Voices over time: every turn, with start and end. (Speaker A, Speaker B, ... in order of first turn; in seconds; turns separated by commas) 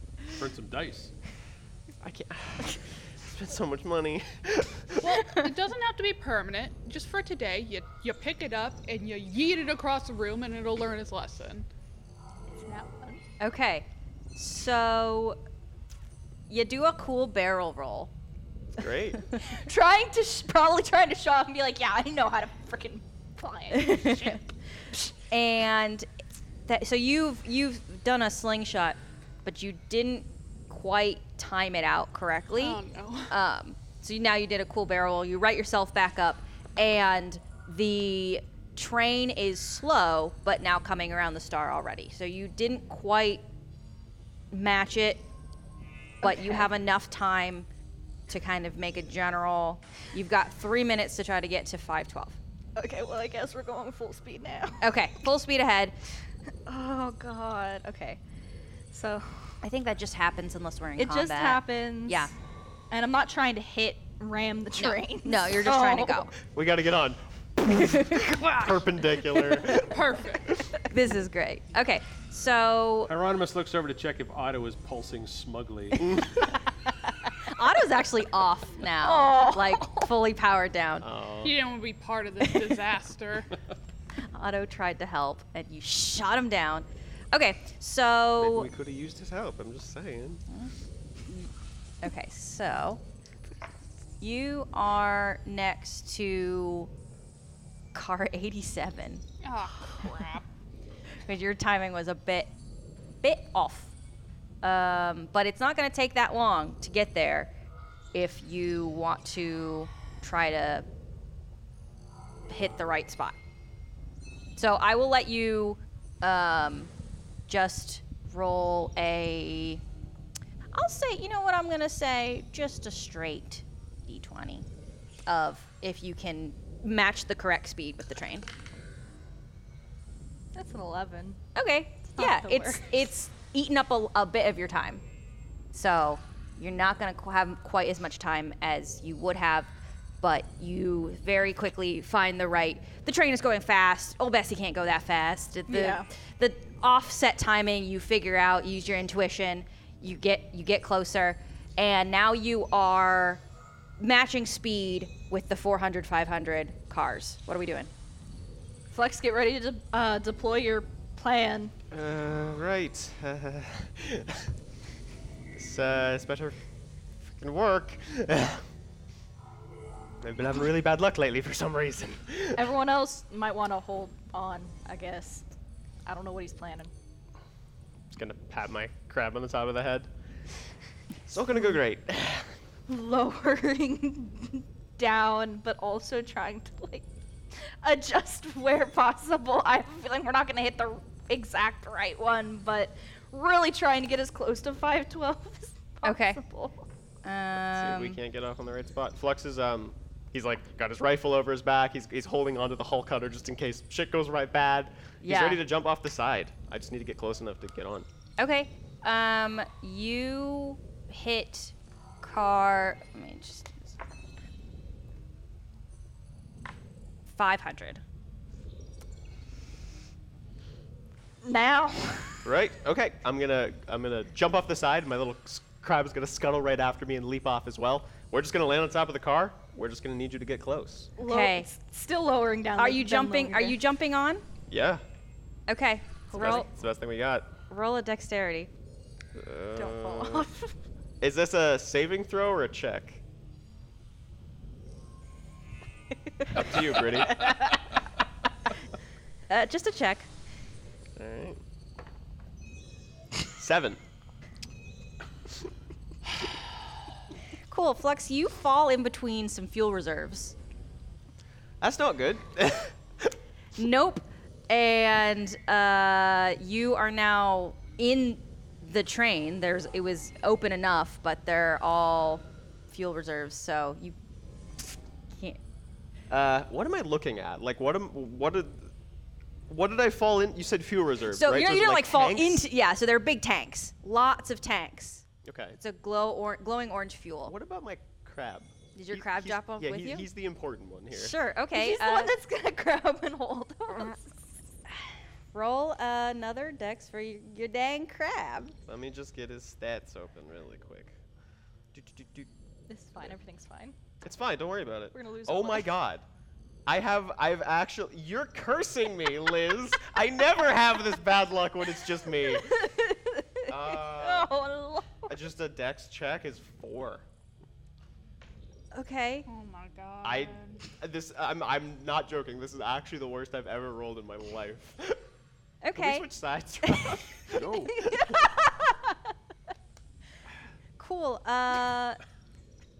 Speaker A: 0.3-1.1, Speaker B: 2.0-5.3, Speaker C: 5.0-11.7, Speaker D: 12.6-13.2, Speaker E: 13.4-15.4, Speaker E: 16.5-18.1, Speaker B: 18.8-19.2, Speaker D: 19.4-25.1, Speaker E: 23.7-24.4, Speaker E: 25.3-43.4, Speaker C: 32.5-33.3, Speaker E: 44.5-45.2, Speaker E: 46.2-47.7, Speaker D: 46.2-46.7, Speaker E: 48.3-52.4, Speaker D: 52.8-54.9, Speaker E: 54.8-55.9, Speaker D: 56.6-58.2, Speaker D: 58.9-59.6, Speaker E: 59.6-62.3, Speaker D: 61.0-62.3, Speaker D: 62.9-66.3, Speaker E: 64.8-66.3, Speaker B: 66.5-70.0, Speaker C: 69.7-70.6, Speaker E: 70.9-73.1, Speaker A: 73.1-76.0, Speaker B: 76.0-76.3, Speaker E: 77.4-81.0, Speaker D: 79.0-80.1, Speaker B: 81.0-81.6, Speaker C: 81.4-83.5, Speaker E: 84.3-88.7, Speaker B: 88.4-90.4, Speaker E: 92.0-93.0, Speaker E: 94.2-96.9, Speaker E: 97.9-99.2, Speaker C: 99.4-100.5, Speaker E: 101.2-102.5, Speaker E: 103.2-103.9, Speaker E: 104.6-107.5, Speaker E: 108.1-110.8, Speaker E: 112.5-113.4, Speaker E: 114.5-116.9, Speaker E: 117.5-119.8, Speaker E: 120.7-124.7, Speaker E: 125.2-128.5, Speaker D: 130.5-131.4, Speaker E: 131.5-135.0, Speaker D: 132.1-132.9, Speaker E: 135.7-153.4, Speaker D: 145.7-146.1, Speaker E: 154.0-157.9, Speaker D: 158.9-161.7, Speaker B: 161.9-164.5, Speaker B: 165.5-166.6, Speaker B: 167.2-168.7, Speaker B: 170.2-172.7, Speaker D: 172.5-175.4, Speaker D: 176.1-176.9, Speaker B: 178.1-180.1, Speaker B: 181.3-182.5, Speaker D: 182.9-196.8, Speaker E: 196.0-196.4, Speaker E: 197.2-198.2, Speaker B: 197.7-208.1, Speaker E: 205.2-205.6, Speaker E: 208.4-213.9, Speaker E: 217.3-218.0, Speaker D: 221.4-222.5, Speaker B: 222.4-231.1, Speaker D: 231.2-233.8, Speaker E: 231.2-231.7, Speaker E: 232.8-234.4, Speaker B: 234.7-235.0, Speaker E: 235.7-236.7, Speaker B: 236.3-237.5, Speaker E: 237.7-238.7, Speaker B: 239.3-240.5, Speaker D: 239.8-240.7, Speaker B: 241.2-243.2, Speaker B: 246.5-247.6, Speaker E: 249.5-250.3, Speaker B: 251.2-251.6, Speaker B: 253.5-254.0, Speaker E: 257.7-260.5, Speaker B: 261.8-263.4, Speaker E: 263.8-274.1, Speaker E: 274.8-275.6, Speaker B: 276.3-278.9, Speaker B: 279.7-282.6, Speaker E: 281.3-285.2, Speaker B: 285.4-285.8, Speaker E: 285.8-287.5, Speaker B: 287.5-291.4, Speaker E: 288.9-290.2, Speaker E: 291.1-292.3, Speaker D: 291.7-294.4, Speaker E: 295.5-298.7, Speaker B: 298.9-301.1, Speaker B: 301.9-302.5, Speaker D: 302.9-303.9, Speaker B: 304.2-306.2, Speaker D: 305.1-305.9, Speaker B: 306.9-312.8, Speaker D: 312.4-315.3, Speaker B: 313.7-314.5, Speaker B: 315.3-317.2, Speaker E: 318.9-319.5, Speaker C: 319.5-320.9, Speaker B: 320.2-325.2, Speaker E: 325.8-326.2, Speaker B: 325.9-328.4, Speaker E: 326.8-327.2, Speaker A: 327.5-328.1, Speaker E: 327.9-329.1, Speaker E: 331.0-332.2